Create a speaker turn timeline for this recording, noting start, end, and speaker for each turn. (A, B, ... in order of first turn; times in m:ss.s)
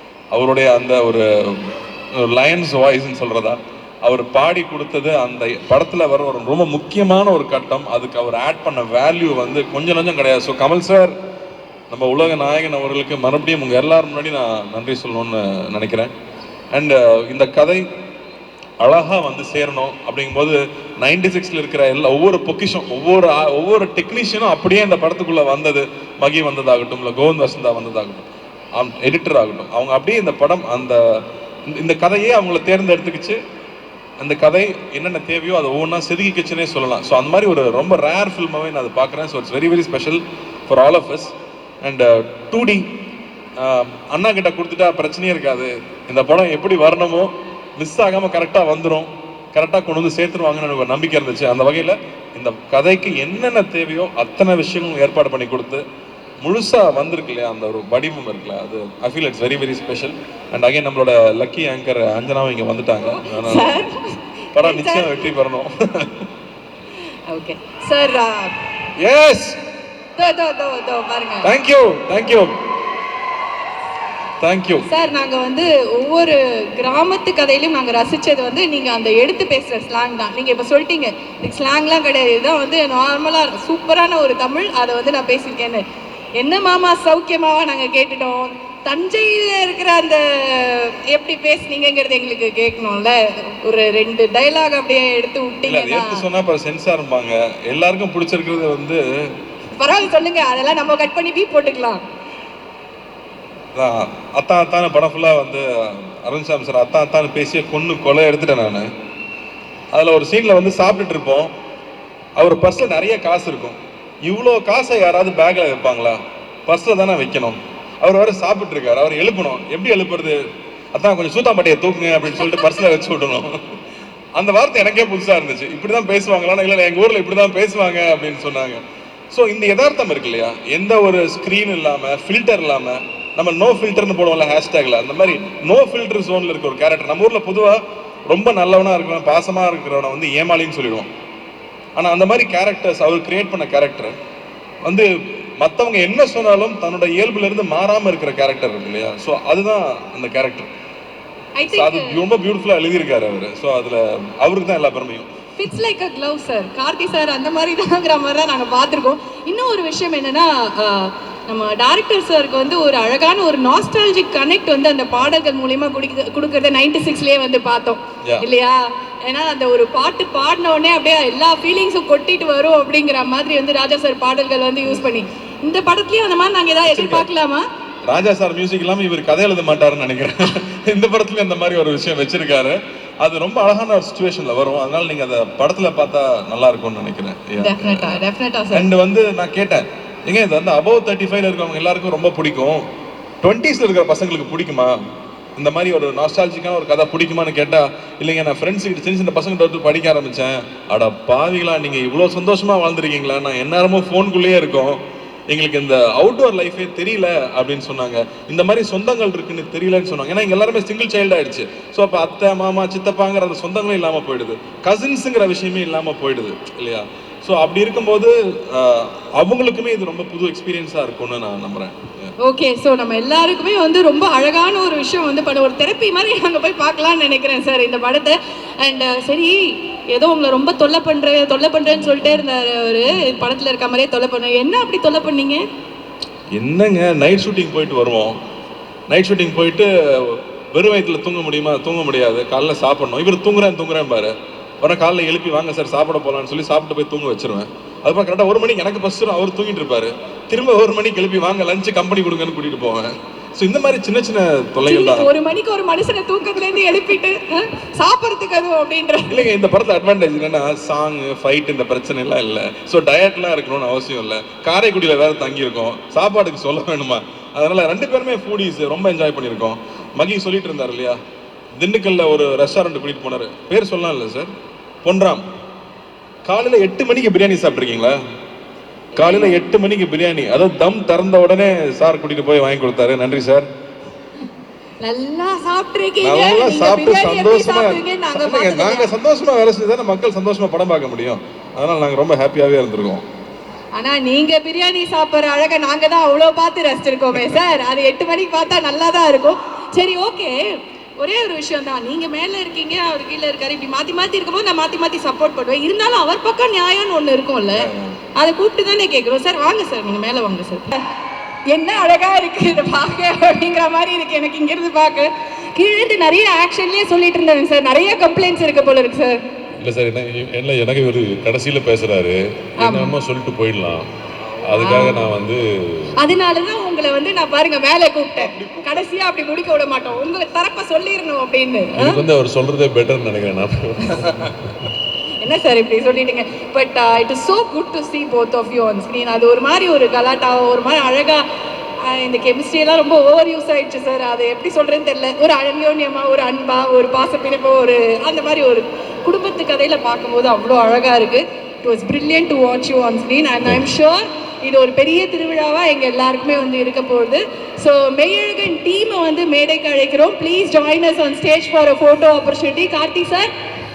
0:00.3-0:11.1 A
0:11.9-0:16.1 A
0:16.7-0:17.8 A
0:18.8-0:28.2 A
0:28.8-0:31.2 A
0:31.7-0:33.4 A
0:34.2-0:42.8 A
0:43.6-0:55.8 A
0:56.4-1:03.8 A
1:03.1-1:05.3 B
1:04.5-1:06.2 A
1:07.3-1:08.5 B
1:09.0-1:09.6 A
1:10.2-1:11.5 B
1:11.4-1:12.5 A
1:14.4-1:14.9 A
1:14.9-1:25.8 B
1:26.4-1:36.2 B
1:35.6-1:39.0 A
1:39.8-1:42.0 B
1:43.7-1:48.8 A
1:49.9-1:51.5 A
1:52.4-2:00.4 A
2:00.9-2:03.6 A
2:02.4-2:02.7 B
2:04.4-2:21.1 A
2:22.0-2:24.1 A
2:24.8-2:25.1 A
2:25.6-2:30.7 A
2:31.6-2:32.2 B
2:31.7-2:35.3 A
2:35.6-2:57.6 B
2:56.8-2:57.2 A
2:58.1-3:08.2 A
3:07.6-3:08.9 B
3:08.7-3:12.8 A
3:13.4-3:15.0 A
3:15.6-3:42.3 A
3:42.4-3:49.5 B
3:50.1-3:55.6 B
3:51.9-3:52.4 A
3:56.5-3:58.3 A
3:59.1-4:15.3 A
4:14.8-4:19.5 B
4:19.3-4:31.2 A
4:31.8-4:34.5 A
4:35.0-4:35.4 A
4:36.4-4:38.2 A
4:39.1-4:39.6 B
4:39.2-4:43.6 A
4:45.0-4:49.1 B
4:46.2-4:53.2 A
4:53.9-5:00.6 B
5:01.2-5:11.0 B
5:07.7-5:08.2 A
5:11.7-5:19.4 B
5:19.8-5:24.1 C
5:22.8-5:23.2 B
5:24.6-5:26.1 C
5:24.7-5:25.3 B
5:26.2-5:32.2 B
5:28.4-5:29.0 A
5:32.0-5:34.6 C
5:35.4-5:41.4 B
5:42.0-6:03.5 B